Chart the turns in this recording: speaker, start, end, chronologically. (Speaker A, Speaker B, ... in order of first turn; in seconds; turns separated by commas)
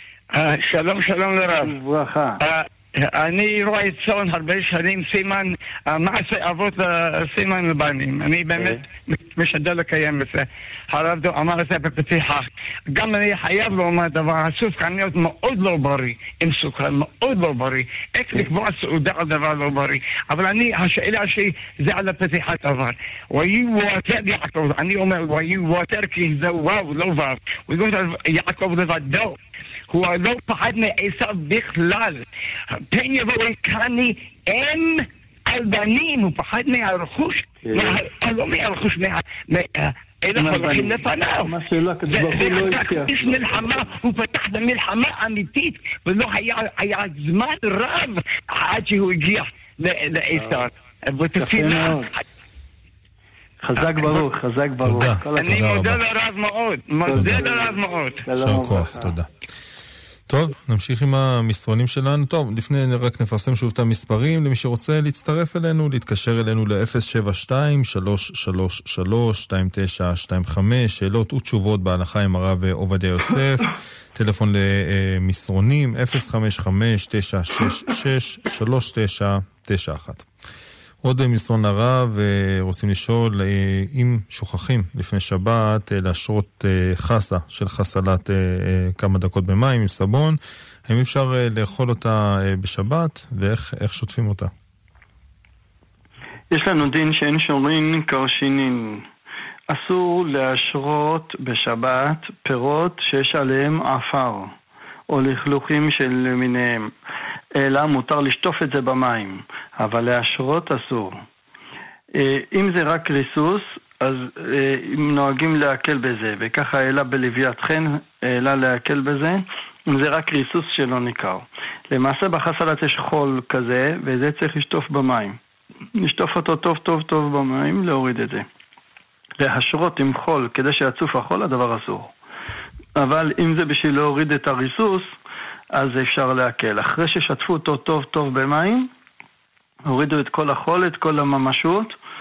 Speaker A: 0.3-1.7, Speaker B: 1.5-2.4, Speaker A: 2.4-29.4, Speaker A: 29.9-32.2, Speaker A: 32.9-41.5, Speaker B: 37.6-38.0, Speaker B: 40.4-43.1, Speaker A: 42.1-52.2, Speaker B: 50.3-50.6, Speaker B: 51.4-52.1, Speaker B: 53.6-55.6, Speaker A: 53.8-54.2, Speaker C: 54.8-56.0, Speaker A: 55.4-58.2, Speaker B: 57.0-59.1, Speaker C: 57.1-57.4, Speaker C: 58.4-59.3, Speaker C: 60.3-80.3, Speaker C: 81.0-94.5, Speaker B: 96.5-99.0, Speaker B: 99.7-104.5, Speaker B: 105.1-106.9, Speaker B: 107.5-111.2, Speaker B: 112.1-125.4, Speaker B: 126.0-128.4, Speaker B: 129.4-132.1, Speaker B: 133.0-135.1, Speaker B: 135.7-138.9, Speaker B: 139.8-141.9